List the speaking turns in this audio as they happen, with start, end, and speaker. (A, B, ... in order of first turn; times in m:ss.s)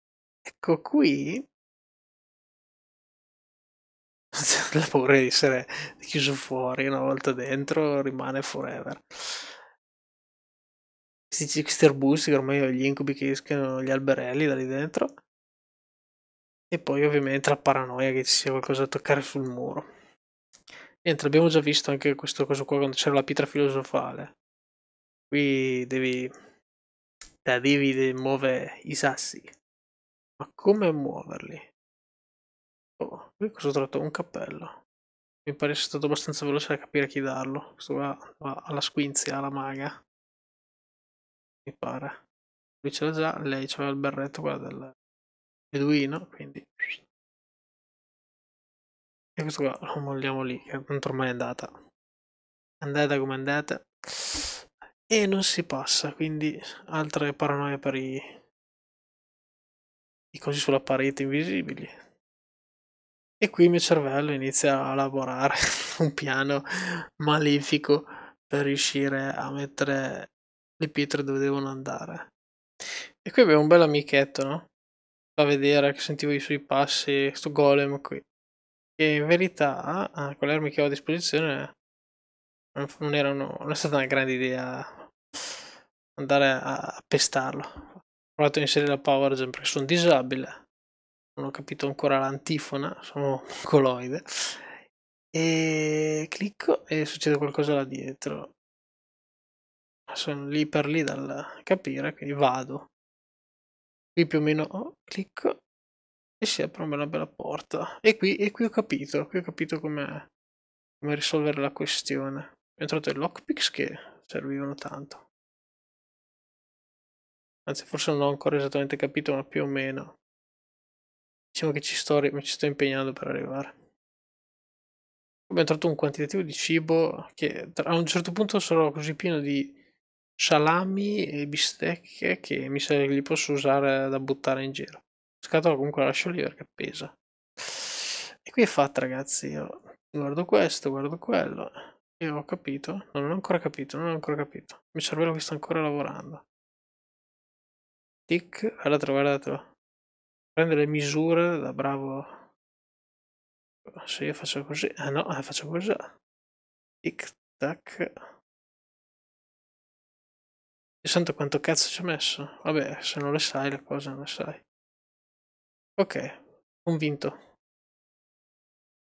0:00.4-0:01.4 A
0:04.3-0:09.5 A
0:11.3-0:15.2 A
0:16.7-0:19.9 A
0:21.0-0:24.3 A
0:25.3-0:26.3 A
0:27.4-0:29.5 A
0:30.4-0:31.7 A
0:33.0-0:34.8 A
0:35.4-0:40.0 A
0:41.6-0:42.2 A
0:42.8-0:44.9 A
0:45.7-0:47.0 A
0:49.4-0:51.7 A
0:52.8-0:58.2 A
1:00.3-1:01.9 A
1:03.4-1:06.6 A
1:07.2-1:12.3 A
1:13.2-1:14.7 A
1:15.4-1:18.2 A
1:19.0-1:21.7 A
1:22.7-1:25.5 A
1:26.2-1:30.6 A
1:31.4-1:34.6 A
1:35.3-1:38.5 A
1:40.1-1:42.9 A
1:44.1-1:45.6 A
1:46.4-1:50.3 A
1:51.0-1:55.2 A
1:57.6-2:00.2 A
2:01.5-2:03.7 A
2:05.5-2:09.8 A
2:10.4-2:26.4 A
2:28.3-2:29.7 A
2:30.6-2:32.4 A
2:33.9-2:36.1 A
2:37.0-2:38.1 A
2:41.0-2:44.6 A
2:46.0-2:47.4 A